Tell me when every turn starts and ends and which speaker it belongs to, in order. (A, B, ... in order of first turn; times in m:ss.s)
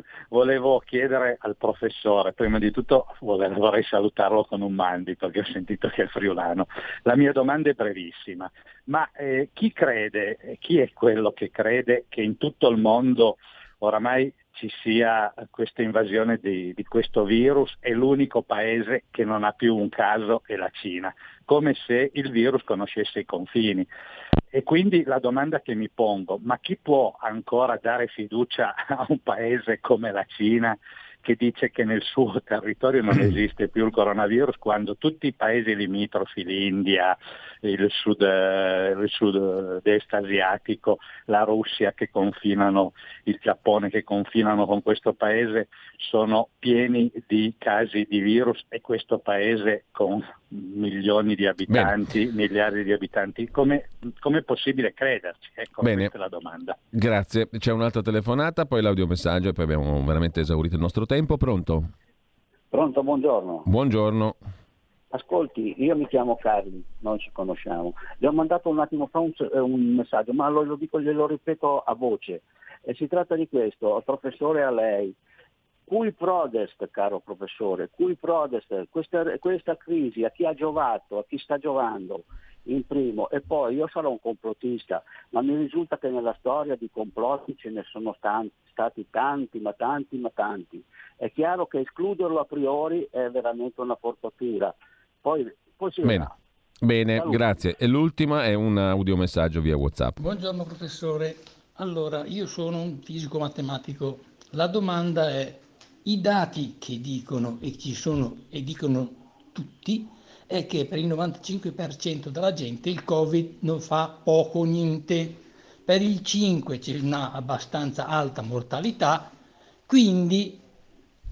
0:00.3-0:23.9 A
0:24.5-0:56.8 A
0:51.7-0:51.9 B
0:55.8-0:56.1 B
0:56.9-1:01.9 B
1:02.7-1:03.7 C
1:03.7-1:04.4 B
1:05.1-1:15.2 C
1:15.9-1:36.4 C
1:36.0-1:36.3 B
1:36.8-1:40.2 B
1:37.2-1:37.4 C
1:40.2-1:59.3 D
1:59.9-2:00.6 D